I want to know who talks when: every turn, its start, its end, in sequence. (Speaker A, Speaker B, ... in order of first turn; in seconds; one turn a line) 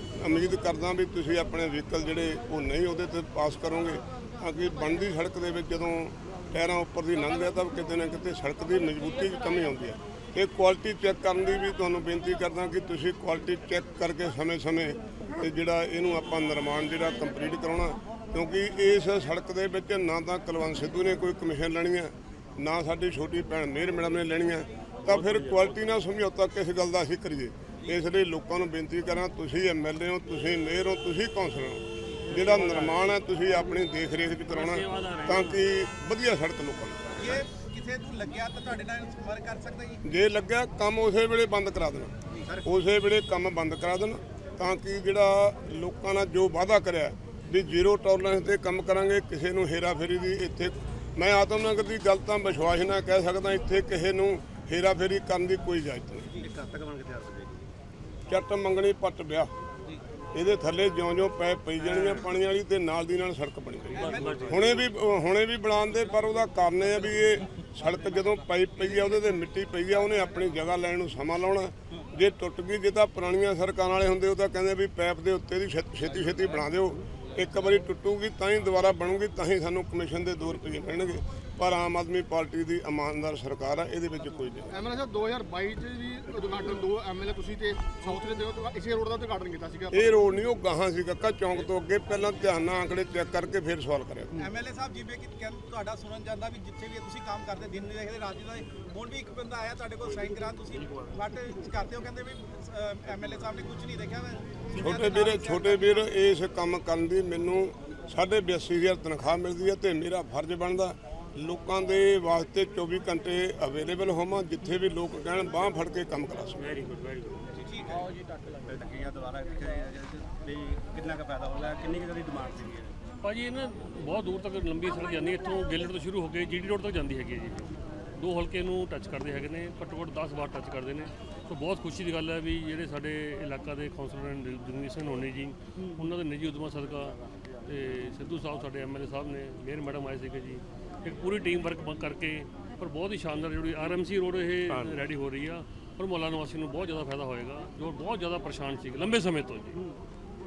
Speaker A: 0.2-37.4
Speaker B: 25.1-25.8
Speaker B: 32.3-33.0
Speaker B: 34.5-35.6
Speaker C: 37.2-40.0
Speaker A: 40.0-42.1
Speaker C: 42.3-42.7
Speaker A: 42.6-56.3
Speaker D: 56.4-57.7
Speaker A: 58.3-59.5
Speaker A: 60.3-84.7
Speaker B: 61.8-62.3
Speaker B: 63.9-64.8
Speaker C: 63.9-64.9
Speaker E: 84.7-90.2
Speaker A: 89.9-94.4
Speaker C: 94.3-106.1
Speaker A: 104.7-116.5
Speaker B: 116.6-117.5
Speaker C: 117.5-118.0
Speaker D: 118.7-122.9
Speaker B: 123.2-149.8